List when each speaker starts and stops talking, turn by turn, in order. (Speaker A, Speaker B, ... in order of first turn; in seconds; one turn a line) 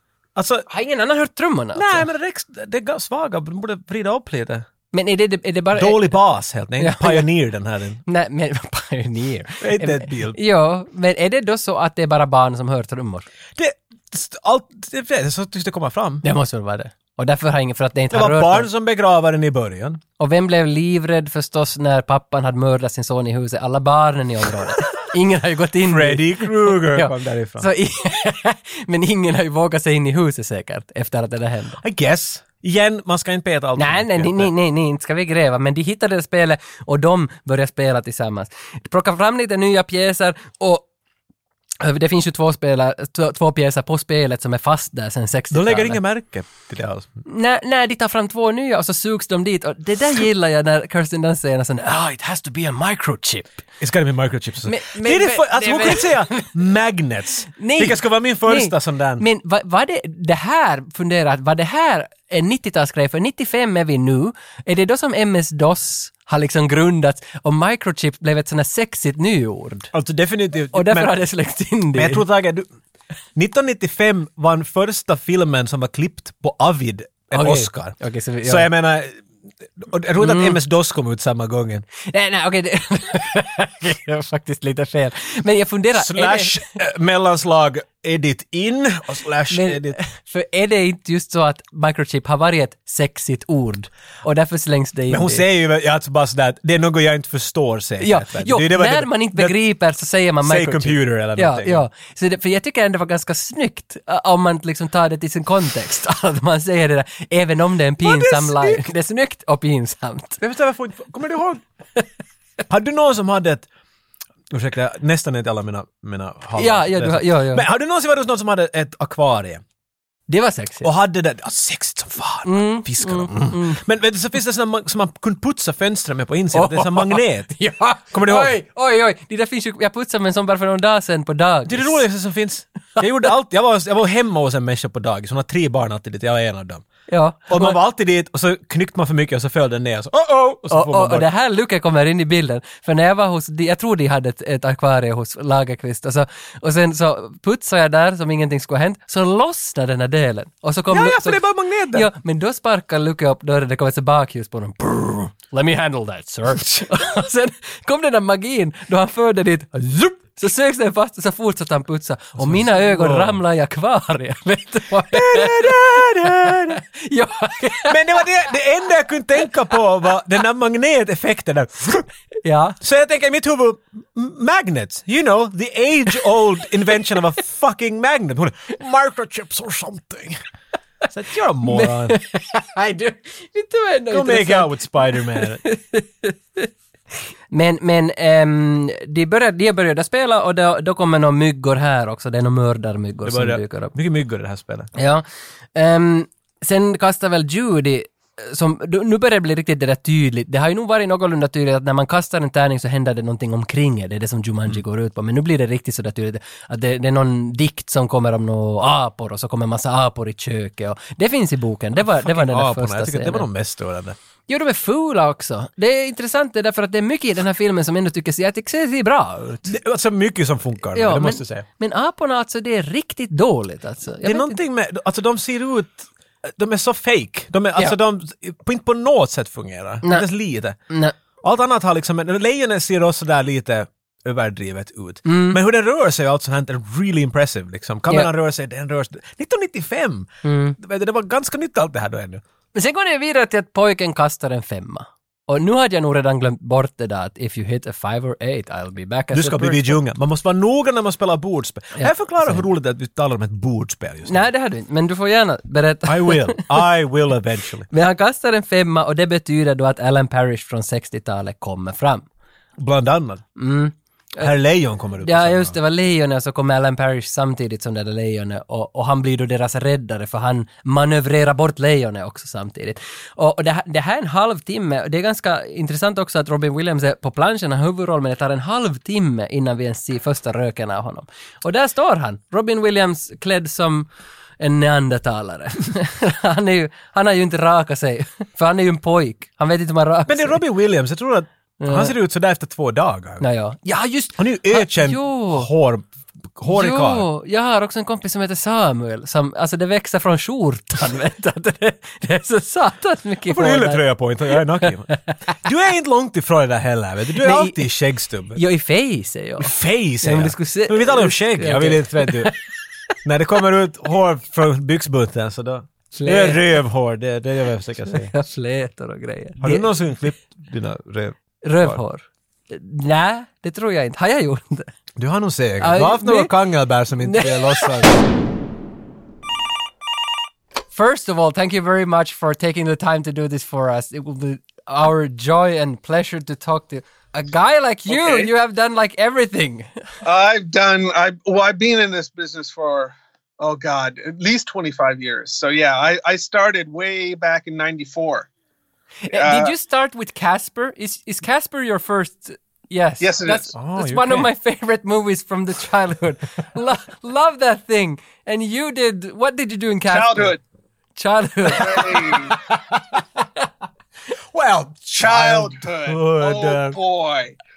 Speaker A: 0.3-0.7
Speaker B: 0.7-2.1
Speaker A: 1.8-4.7
Speaker B: 4.9-6.2
Speaker A: 5.7-8.0
Speaker B: 6.8-7.3
Speaker B: 8.1-13.3
Speaker A: 9.6-10.4
Speaker A: 13.6-16.2
Speaker B: 16.2-18.7
Speaker A: 18.1-20.0
Speaker B: 20.2-31.8
Speaker A: 25.8-27.7
Speaker A: 31.8-34.5
Speaker B: 33.8-40.9
Speaker B: 41.8-46.0
Speaker A: 45.5-47.2
Speaker B: 47.2-53.5
Speaker A: 53.8-59.2
Speaker B: 54.6-56.5
Speaker B: 57.6-69.9
Speaker A: 69.9-71.1
Speaker B: 70.7-72.2
Speaker A: 71.9-72.7
Speaker A: 73.3-79.1
Speaker B: 77.3-78.7
Speaker A: 79.8-81.8
Speaker B: 80.2-80.6
Speaker B: 82.1-86.6
Speaker A: 86.0-90.0
Speaker B: 89.5-95.4
Speaker A: 95.1-99.6
Speaker B: 98.0-110.4
Speaker A: 100.4-101.8
Speaker A: 108.0-108.8
Speaker A: 110.4-111.6
Speaker A: 112.7-113.7
Speaker A: 114.5-119.6
Speaker B: 116.6-117.6
Speaker B: 120.3-120.9
Speaker A: 120.8-127.5
Speaker B: 122.5-123.8
Speaker B: 126.5-132.0
Speaker A: 128.1-128.5
Speaker A: 131.7-136.8
Speaker B: 137.1-137.8
Speaker A: 137.5-141.3
Speaker B: 140.7-168.2
Speaker A: 150.9-152.1
Speaker A: 162.3-163.4
Speaker A: 165.1-166.8
Speaker A: 167.9-172.1
Speaker B: 172.4-172.8
Speaker A: 172.8-180.4
Speaker A: 181.1-182.2
Speaker B: 181.6-186.7
Speaker A: 184.1-185.6
Speaker B: 187.5-193.9
Speaker A: 193.2-194.9
Speaker B: 194.9-213.5
Speaker A: 212.0-214.2
Speaker B: 214.5-219.7
Speaker A: 219.7-221.6
Speaker B: 220.9-224.6
Speaker A: 224.2-230.8
Speaker B: 230.9-231.1
Speaker A: 231.4-242.4
Speaker B: 235.2-235.6
Speaker B: 240.4-240.8
Speaker B: 242.7-250.0
Speaker A: 249.3-254.5
Speaker B: 251.9-252.6
Speaker B: 254.2-256.6
Speaker A: 256.1-257.9
Speaker B: 257.9-262.2
Speaker A: 262.8-263.4
Speaker B: 263.6-264.5
Speaker A: 264.4-265.8
Speaker B: 265.2-284.1
Speaker B: 284.6-290.6
Speaker A: 290.3-293.4
Speaker B: 291.8-292.1
Speaker B: 293.4-295.7
Speaker A: 294.4-297.2
Speaker B: 296.7-304.0
Speaker A: 303.5-305.1
Speaker B: 304.8-305.3
Speaker A: 305.6-308.6
Speaker B: 307.4-307.9
Speaker B: 308.5-312.5
Speaker A: 309.6-312.5
Speaker A: 313.2-318.3
Speaker B: 316.1-316.6
Speaker B: 318.1-319.9
Speaker A: 319.6-322.0
Speaker B: 321.6-324.9
Speaker A: 325.2-328.3
Speaker B: 325.8-326.5
Speaker B: 327.2-328.1
Speaker B: 330.9-339.9
Speaker C: 338.1-338.5
Speaker C: 340.2-348.5
Speaker B: 349.2-360.6
Speaker C: 349.3-349.7
Speaker C: 353.2-353.7
Speaker A: 353.7-354.5
Speaker C: 360.1-360.6
Speaker B: 361.1-362.1
Speaker C: 361.7-362.6
Speaker A: 362.9-363.2
Speaker A: 364.5-367.0
Speaker C: 365.2-367.6